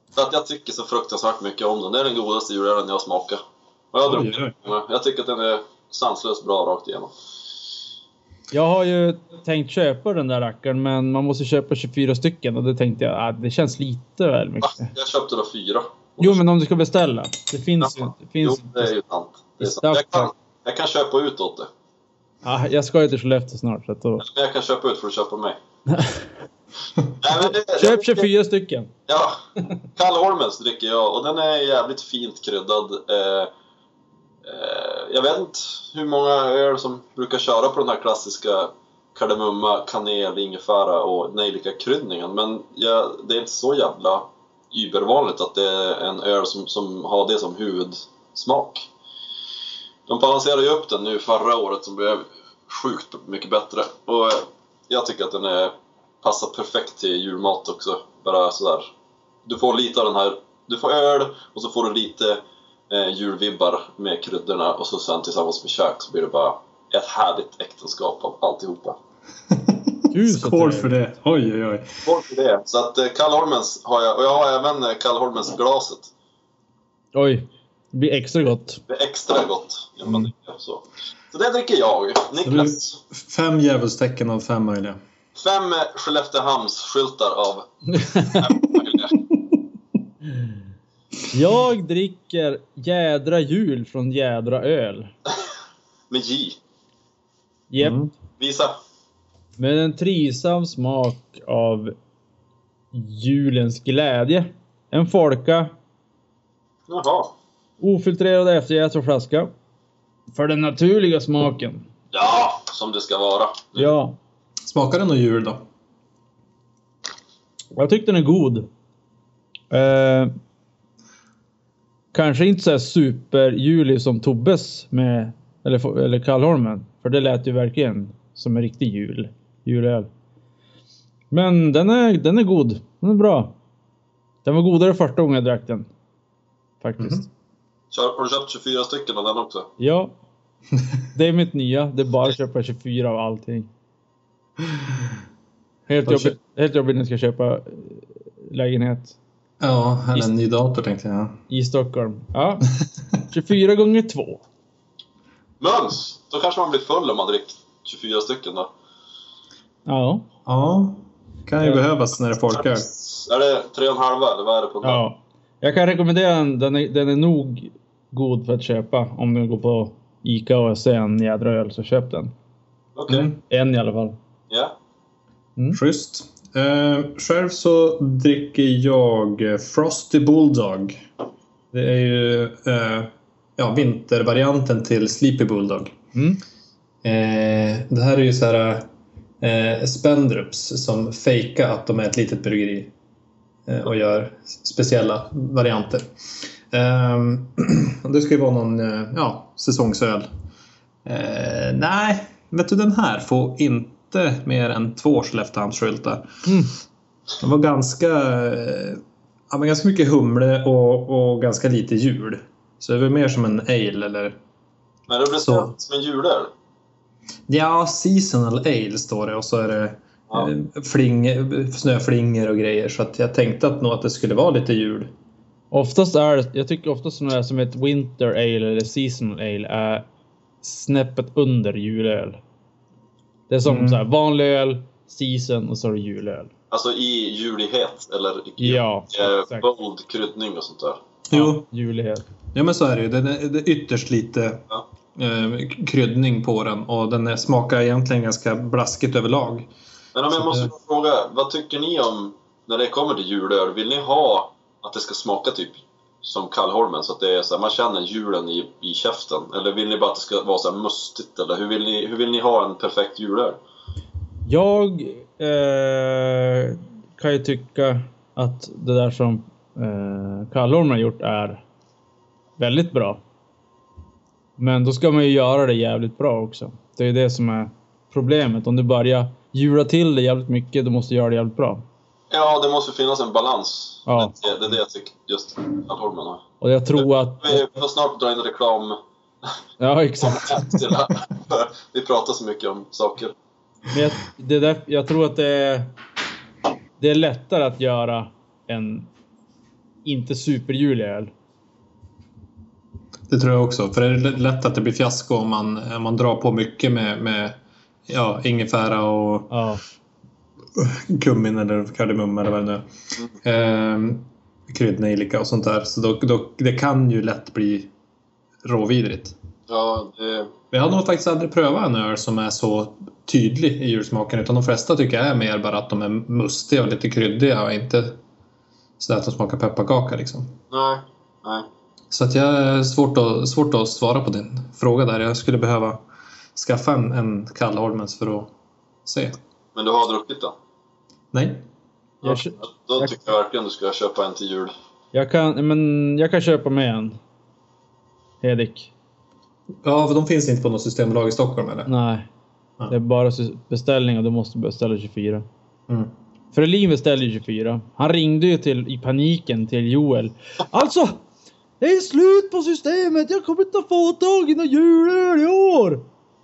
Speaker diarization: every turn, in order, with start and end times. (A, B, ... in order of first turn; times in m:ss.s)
0:00.1-0:03.4 A
0:03.9-0:07.1 A
0:04.0-0:04.5 B
0:08.5-0:14.9 C
0:14.9-0:16.4 A
0:16.2-0:18.9 C
0:17.8-0:21.7 A
0:19.6-0:20.3 C
0:22.4-0:24.2 C
0:24.2-0:25.6 A
0:25.9-0:26.3 C
0:27.1-0:28.3 A
0:27.3-0:28.9 C
0:29.1-0:29.4 A
0:29.9-0:33.5 A
0:34.4-0:48.9 A
0:50.1-0:58.9 A
0:59.4-1:09.0 A
1:09.5-1:12.0 B
1:10.1-1:10.9 C
1:12.0-1:16.1 A
1:17.1-1:18.8 C
1:18.9-1:23.0 A
1:22.4-1:25.0 B
1:25.4-1:29.2 A
1:27.9-1:28.4 C
1:29.2-1:29.6 B
1:31.3-1:35.1 C
1:36.1-1:36.6 A
1:37.7-1:38.0 C
1:37.8-1:38.1 B
1:38.4-1:38.8 A
1:39.6-1:41.9 C
1:42.9-1:45.7 C
1:46.9-1:47.3 A
1:47.8-1:49.5 C
1:50.3-1:51.9 C
1:52.1-1:53.9 A
1:53.7-1:54.2 C
1:54.6-1:55.6 B
1:57.7-1:58.7 C
1:59.7-2:00.3 C
2:02.1-2:10.1 C
2:11.3-2:13.5 C
2:14.4-2:15.9 C
2:16.8-2:17.2 C
2:17.0-2:17.2 B
2:17.9-2:19.7 A
2:19.8-2:20.1 C
2:21.1-2:23.7 C
2:25.9-2:29.2 C
2:26.0-2:26.4 B
2:29.6-2:31.4 B
2:31.5-2:32.7 C
2:32.8-2:33.2 B
2:33.3-2:34.4 C
2:35.6-2:38.7 A
2:39.8-2:40.2 C
2:40.4-2:42.9 B
2:42.5-2:45.0 A
2:44.8-2:52.3 C
2:53.0-2:53.3 A
2:53.1-2:53.4 B
2:53.4-2:54.1 C
2:54.5-2:54.7 A
2:55.7-3:01.1 B
3:01.7-3:06.0 B
3:06.1-3:06.4 C
3:07.0-3:08.9 B
3:09.4-3:12.9 B
3:13.7-3:16.1 B
3:16.7-3:20.3 B
3:21.0-3:26.4 B
3:26.4-3:26.7 C
3:27.4-3:34.4 B
3:35.1-3:36.5 A
3:35.3-3:35.7 B
3:37.5-3:45.1 B
3:45.7-3:50.0 C
3:50.6-3:52.4 C
3:53.5-3:56.5 C
3:53.6-3:54.0 B
3:56.7-4:01.0 A
3:58.6-3:59.7 C
4:01.3-4:01.7 B
4:01.3-4:02.3 C
4:02.5-4:04.6 B
4:05.2-4:09.7 B
4:10.1-4:23.6 A
4:10.3-4:10.7 B
4:24.4-4:31.6 C
4:32.6-4:33.2 C
4:34.6-4:41.8 C
4:42.3-4:46.4 A
4:44.1-4:44.3 C
4:46.6-4:47.6 C
4:47.0-4:49.0 A
4:49.8-4:50.8 C
4:50.2-4:53.3 A
4:53.9-4:55.9 C
4:57.0-4:59.1 C
5:00.0-5:01.3 C
5:03.3-5:09.5 B
5:09.5-5:09.8 C
5:10.8-5:12.9 B
5:13.4-5:17.9 B
5:18.6-5:19.3 B
5:19.7-5:20.5 A
5:20.7-5:28.2 B
5:29.0-5:30.5 B
5:30.7-5:31.7 A
5:32.1-5:36.0 B
5:36.5-5:38.5 B
5:39.0-5:39.4 B
5:39.7-5:40.5 A
5:41.3-5:41.6 B
5:42.2-5:44.7 A
5:42.2-5:43.1 C
5:45.1-5:47.2 C
5:48.4-5:48.9 C
5:49.8-5:51.9 B
5:51.8-5:52.3 C
5:52.9-5:55.4 C
5:56.5-6:01.2 C
6:01.8-6:06.0 C